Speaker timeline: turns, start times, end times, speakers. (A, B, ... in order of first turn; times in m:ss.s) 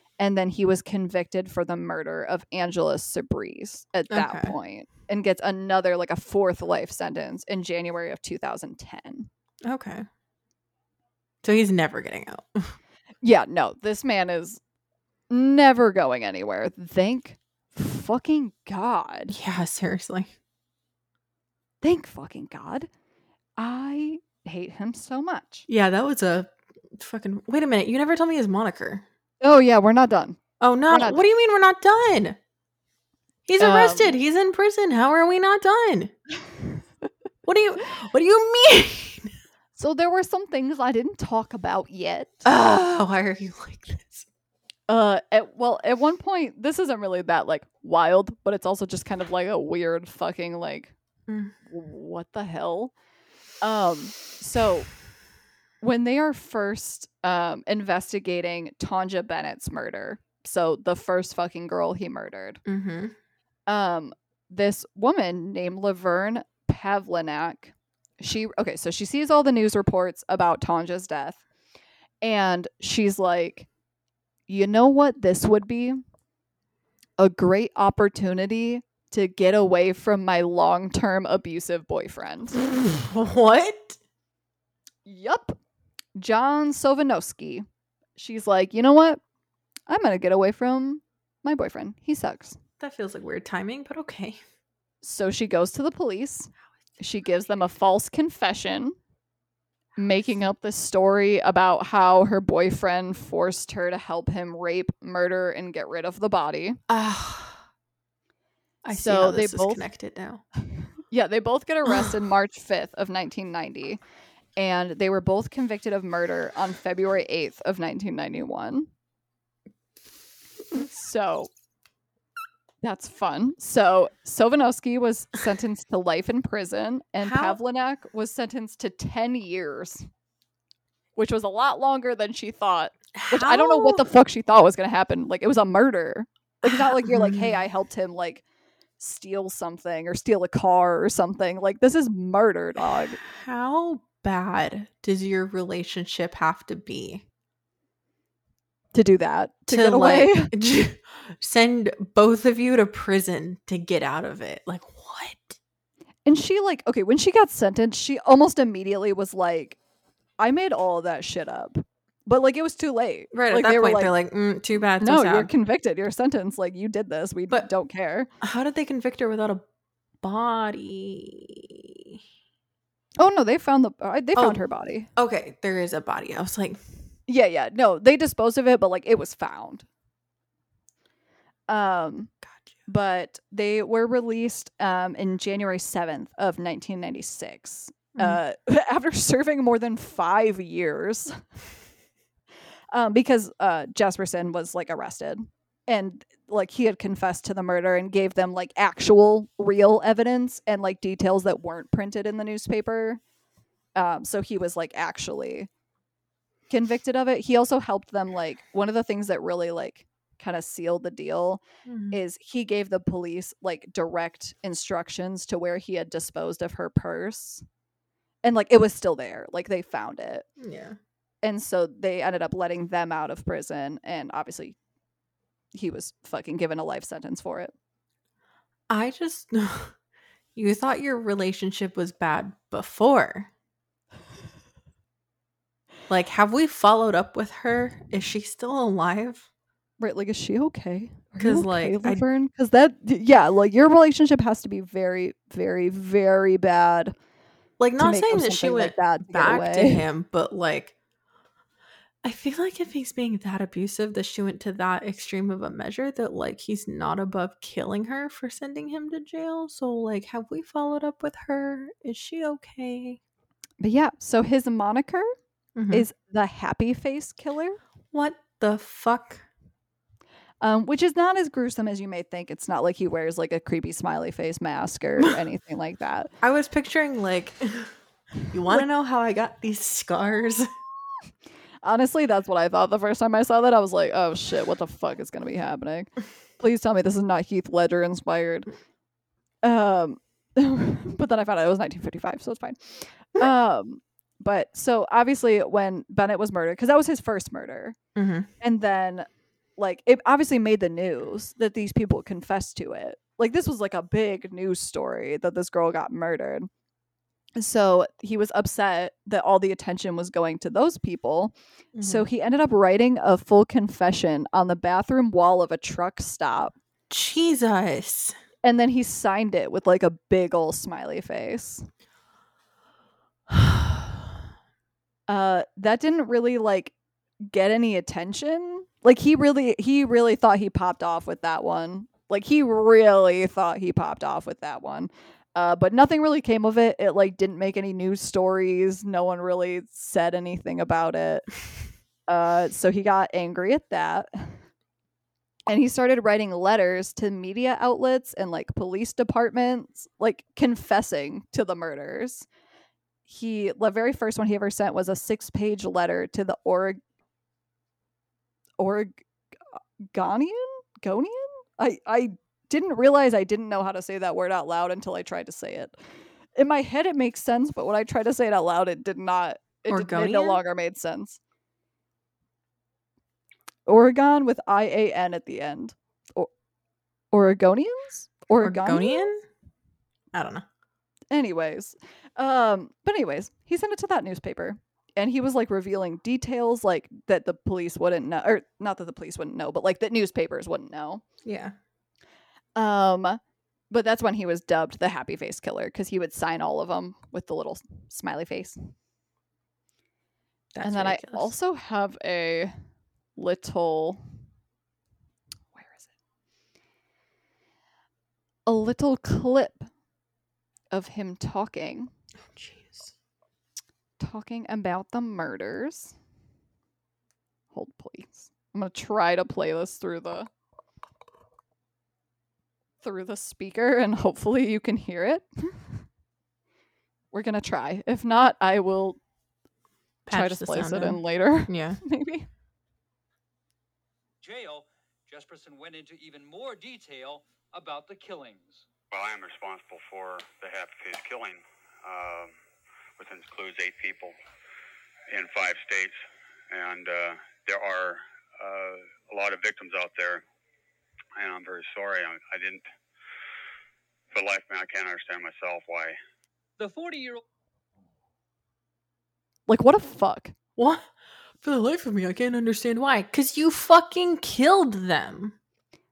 0:00.2-0:09.3 A
0:04.1-0:04.5 B
0:09.6-0:10.0 B
0:11.4-0:12.7 B
0:13.2-0:14.6 A
0:15.3-0:19.4 A
0:19.3-0:20.3 B
0:21.8-0:22.9 A
0:23.6-0:25.6 A
0:25.7-0:29.0 B
0:29.4-0:31.2 A
0:30.6-0:32.4 B
0:33.5-0:36.1 B
0:33.6-0:34.2 A
0:37.4-0:39.3 B
0:39.8-0:42.4 A
0:42.4-0:44.3 B
0:44.9-0:50.9 A
0:51.3-0:51.5 B
0:51.7-0:52.9 A
0:53.6-0:54.9 A
0:55.8-1:02.6 A
1:02.6-1:03.1 B
1:03.7-1:11.4 A
1:12.2-1:13.7 A
1:14.5-1:16.0 A
1:17.2-1:22.6 A
1:22.5-1:24.0 B
1:25.0-1:25.6 A
1:26.2-1:27.6 A
1:28.2-1:29.2 A
1:29.9-1:32.6 A
1:32.8-1:34.4 B
1:35.0-1:39.0 A
1:40.0-1:46.8 A
1:46.9-1:47.6 B
1:48.8-1:50.4 B
1:48.9-1:49.8 A
1:51.1-1:54.0 A
1:54.6-1:58.9 A
2:00.7-2:01.5 A
2:02.8-2:10.0 A
2:07.2-2:07.6 B
2:11.2-2:18.4 A
2:13.1-2:14.0 B
2:16.6-2:17.6 B
2:19.0-2:23.2 A
2:23.2-2:27.2 B
2:28.9-2:30.5 A
2:29.7-2:35.6 B
2:36.2-2:39.8 A
2:40.4-2:44.1 A
2:43.3-2:45.5 B
2:45.0-2:48.3 A
2:48.4-2:49.6 B
2:50.2-2:52.2 B
2:53.2-2:55.1 A
2:54.3-2:54.6 B
2:55.2-2:56.8 B
2:57.3-2:59.8 A
3:01.7-3:02.3 A
3:02.4-3:02.7 B
3:02.8-3:11.4 A
3:08.2-3:08.4 B
3:12.9-3:23.2 A
3:24.0-3:25.7 A
3:26.7-3:37.6 A
3:31.8-3:32.2 B
3:38.4-3:40.4 A
3:40.6-3:41.0 B
3:41.4-3:44.8 A
3:45.7-3:47.7 A
3:48.9-3:49.9 B
3:50.5-3:53.5 B
3:56.1-3:59.5 B
4:00.0-4:07.1 A
4:01.4-4:02.2 B
4:07.8-4:10.9 B
4:08.0-4:10.0 A
4:12.2-4:23.2 B
4:23.8-4:25.3 A
4:25.7-4:26.0 B
4:25.9-4:27.8 A
4:28.1-4:29.4 B
4:30.6-4:36.3 A
4:36.4-4:38.0 B
4:38.5-4:40.7 B
4:41.8-4:48.7 A
4:49.6-4:58.0 A
4:58.2-4:58.5 B
4:58.6-5:06.7 A
5:07.6-5:16.8 A
5:11.9-5:12.3 B
5:17.1-5:18.4 B
5:18.6-5:21.9 A
5:25.3-5:26.9 A
5:27.4-5:41.5 A
5:42.3-5:44.6 A
5:45.7-5:52.4 A
5:53.3-5:57.0 A
5:58.8-6:05.9 A
6:06.6-6:11.4 A
6:09.9-6:10.6 B
6:13.9-6:16.5 A
6:17.3-6:19.3 A
6:18.6-6:19.4 B
6:20.3-6:20.7 B
6:21.3-6:31.2 A
6:31.4-6:31.7 B
6:32.8-6:38.9 A
6:40.7-6:41.5 B
6:40.8-6:42.7 A
6:43.4-6:44.2 A
6:45.7-6:46.1 A
6:48.7-6:49.9 A
6:50.9-6:52.1 A
6:52.5-6:53.1 B
6:54.2-6:56.1 A
6:57.7-7:00.5 A
7:03.0-7:05.8 A
7:07.3-7:09.2 A
7:10.2-7:12.0 B
7:10.3-7:12.5 A
7:14.4-7:18.8 C
7:19.1-7:22.5 D
7:23.2-7:24.4 D
7:25.3-7:26.2 D
7:26.7-7:30.4 D
7:31.4-7:32.8 D
7:34.3-7:36.2 D
7:36.8-7:37.4 C
7:39.7-7:40.5 A
7:40.8-7:41.1 B
7:41.6-7:45.6 B